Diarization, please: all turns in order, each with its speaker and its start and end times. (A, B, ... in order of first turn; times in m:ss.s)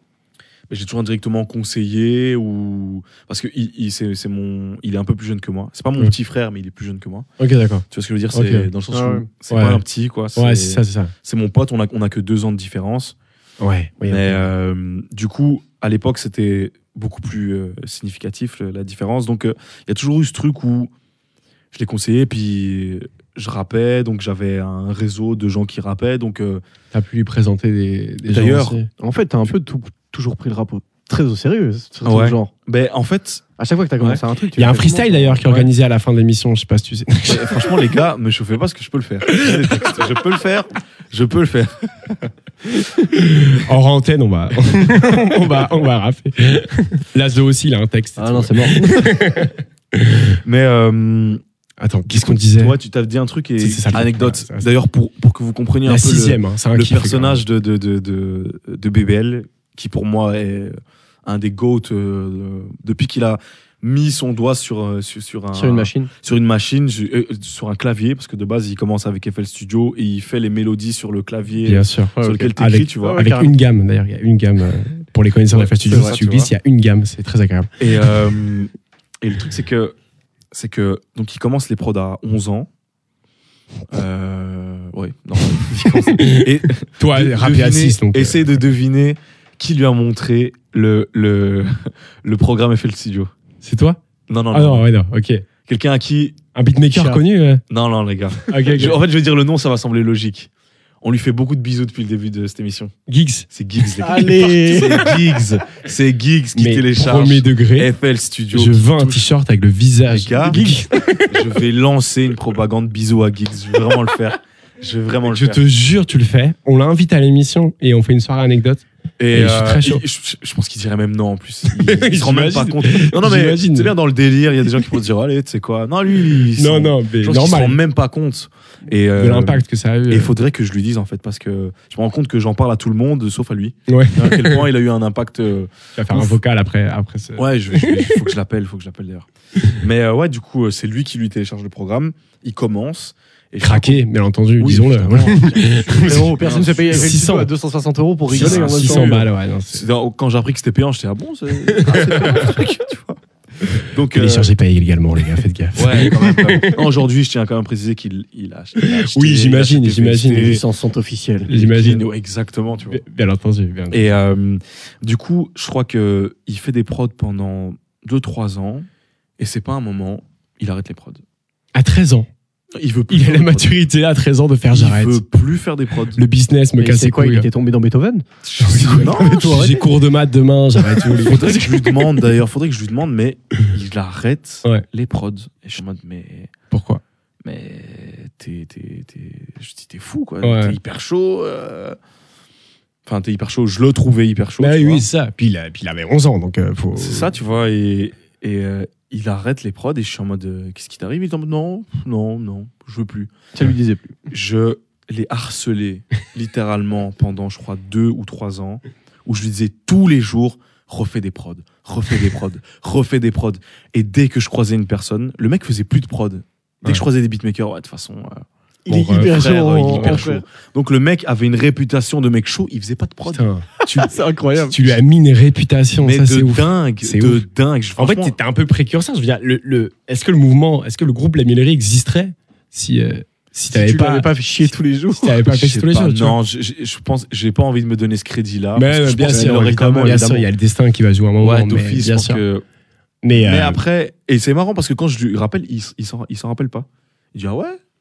0:00.7-0:07.3 A
0:07.4-0:08.7 B
0:07.9-0:13.2 A
0:08.9-0:09.3 C
0:09.5-0:09.8 B
0:10.4-0:11.1 B
0:13.6-0:14.4 B
0:14.1-0:20.9 A
0:21.7-0:26.6 A
0:26.9-0:28.9 B
0:28.3-0:28.8 A
0:29.0-0:32.5 C
0:32.0-0:33.4 A
0:33.6-0:35.5 C
0:34.6-0:37.8 B
0:37.3-0:42.3 A
0:39.4-0:39.9 B
0:43.1-0:50.4 B
0:48.2-0:49.1 C
0:50.4-0:51.4 A
0:51.8-0:52.8 B
0:52.1-1:13.3 A
0:53.6-0:54.7 B
0:55.9-0:57.4 B
1:05.5-1:06.1 C
1:11.6-1:17.7 B
1:12.2-1:13.5 C
1:15.5-1:16.5 A
1:15.9-1:16.2 C
1:17.8-1:18.7 A
1:19.2-1:20.0 A
1:20.5-1:22.7 A
1:23.9-1:33.3 A
1:25.8-1:28.6 B
1:33.6-1:34.0 B
1:34.3-1:34.9 A
1:34.5-1:35.4 B
1:35.7-1:36.4 A
1:36.6-1:37.6 B
1:36.9-1:37.2 C
1:37.7-1:40.5 A
1:38.5-1:39.0 B
1:41.0-1:42.9 A
1:43.1-1:43.5 B
1:43.5-1:49.3 A
1:44.0-1:45.1 C
1:46.6-1:47.9 B
1:48.5-1:51.0 B
1:50.1-1:50.7 A
1:50.5-1:51.3 C
1:51.3-1:55.6 A
1:55.3-2:00.0 B
1:59.2-2:16.4 A
2:01.7-2:04.0 B
2:06.6-2:07.8 B
2:09.2-2:10.3 B
2:13.9-2:14.7 B
2:16.0-2:18.3 B
2:17.4-2:24.0 A
2:23.6-2:26.4 B
2:24.6-2:27.2 A
2:25.9-2:29.2 C
2:26.9-2:27.5 B
2:28.3-2:33.2 A
2:28.3-2:29.9 B
2:31.7-2:32.6 B
2:33.8-2:34.5 A
2:34.1-2:36.9 B
2:35.8-2:40.6 A
2:38.8-2:40.6 B
2:40.4-2:41.5 C
2:41.5-2:42.0 B
2:41.5-2:43.0 A
2:42.9-2:44.1 B
2:43.9-2:48.9 A
2:49.4-2:51.2 A
2:51.8-2:52.3 B
2:52.8-2:53.8 A
2:53.1-2:55.2 B
2:54.7-2:56.2 A
2:56.2-2:57.5 B
2:56.8-2:58.2 C
2:58.4-2:59.8 A
2:58.6-3:01.8 B
2:58.9-2:59.8 C
3:01.2-3:06.5 A
3:06.7-3:07.0 B
3:07.4-3:12.0 A
3:10.4-3:10.8 B
3:13.1-3:15.1 A
3:14.6-3:17.3 B
3:17.0-3:23.3 A
3:23.5-3:24.2 C
3:24.3-3:38.4 A
3:38.9-3:40.4 C
3:38.9-3:40.3 B
3:39.1-3:44.1 A
3:43.3-3:43.7 B
3:44.0-3:44.8 C
3:44.7-3:47.4 B
3:46.0-3:48.4 A
3:48.0-3:56.4 B
3:53.7-3:55.4 C
3:55.4-4:00.5 A
3:58.8-4:02.4 B
4:01.4-4:02.6 A
4:03.2-4:03.8 B
4:03.4-4:07.8 A